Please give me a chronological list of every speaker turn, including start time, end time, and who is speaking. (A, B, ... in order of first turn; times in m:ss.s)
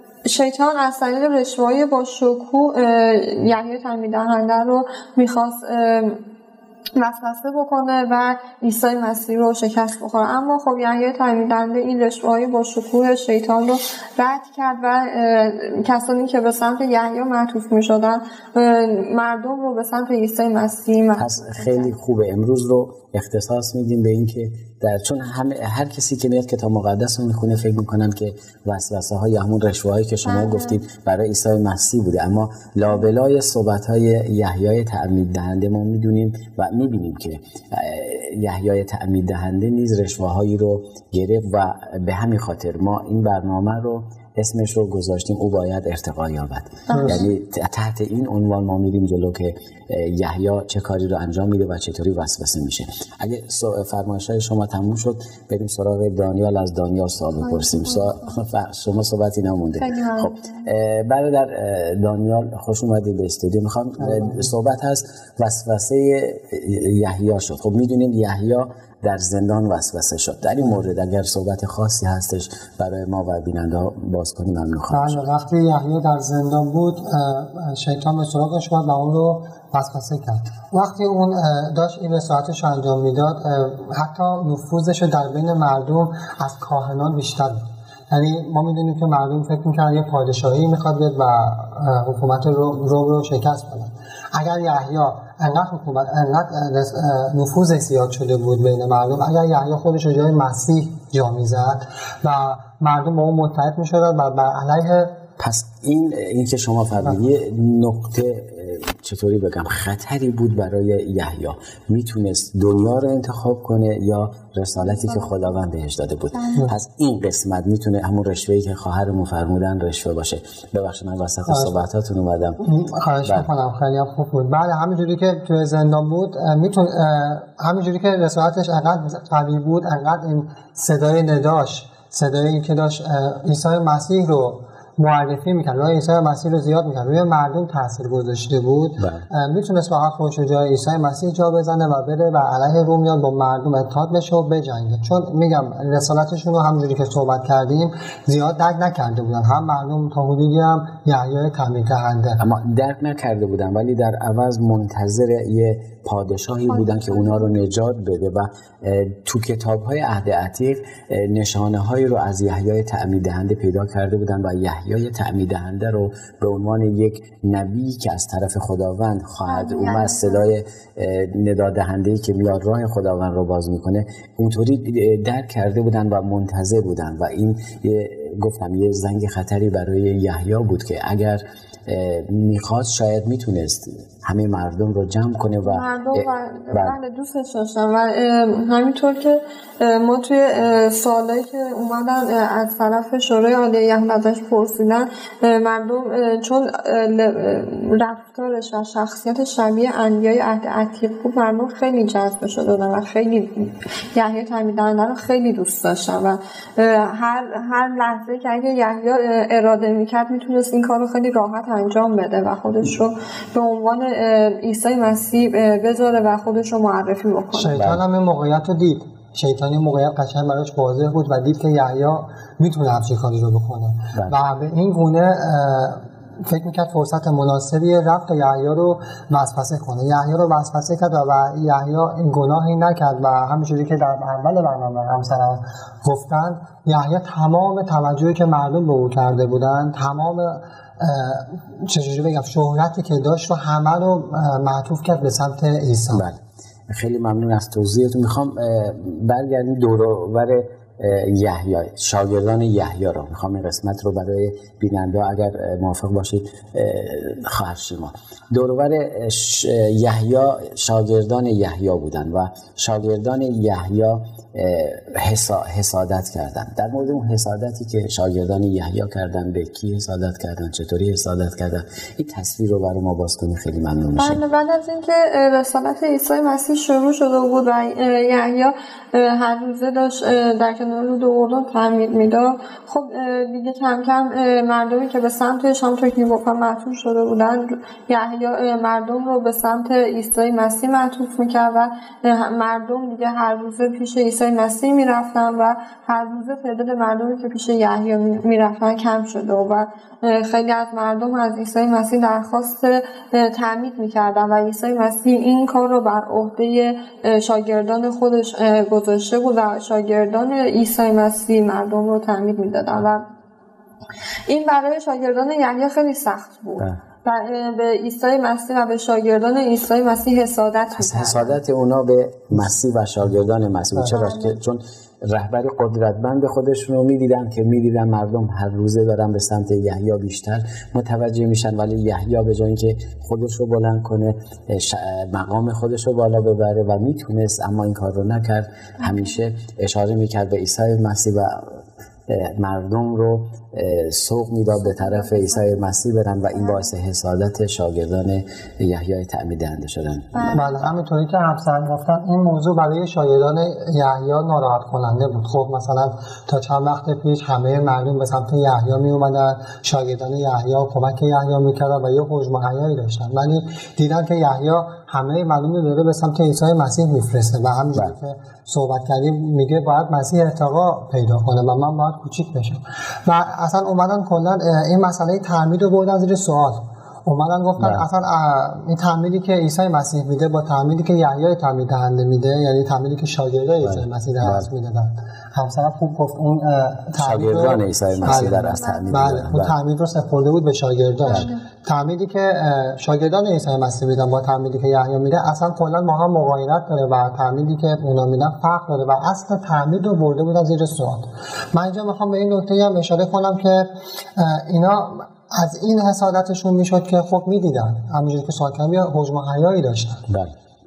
0:00.3-0:06.2 A
0:07.0-0:21.9 A
0:21.2-1:15.3 B
0:30.2-0:30.8 A
0:46.9-0:47.3 A
0:46.9-0:47.2 C
0:57.4-0:58.4 A
0:59.8-1:00.7 A
1:04.0-1:04.5 C
1:14.9-1:45.2 C
1:45.4-2:02.6 B
1:54.8-1:55.6 A
1:56.3-1:56.7 A
2:01.5-2:01.7 C
2:02.6-2:32.4 C
2:03.2-2:03.5 B
2:19.0-2:19.2 B
2:32.4-3:07.0 B
2:36.7-2:37.6 A
2:49.5-2:50.5 A
3:05.6-3:37.8 A
3:37.5-4:06.2 C
3:37.7-3:38.0 B
4:06.1-4:34.4 B
4:34.2-5:13.2 A
5:14.5-5:21.6 A
5:21.0-5:50.5 B
5:23.9-5:24.2 C
5:24.1-5:24.6 A
5:39.0-5:39.4 A
5:44.8-5:45.8 A
5:46.5-5:46.9 A
5:50.3-5:50.8 A
5:50.5-6:50.2 C
6:17.8-6:18.0 B
6:23.8-6:24.7 B
6:27.2-6:29.7 B
6:28.2-6:29.4 A
6:31.2-6:31.6 A
6:50.3-6:50.5 B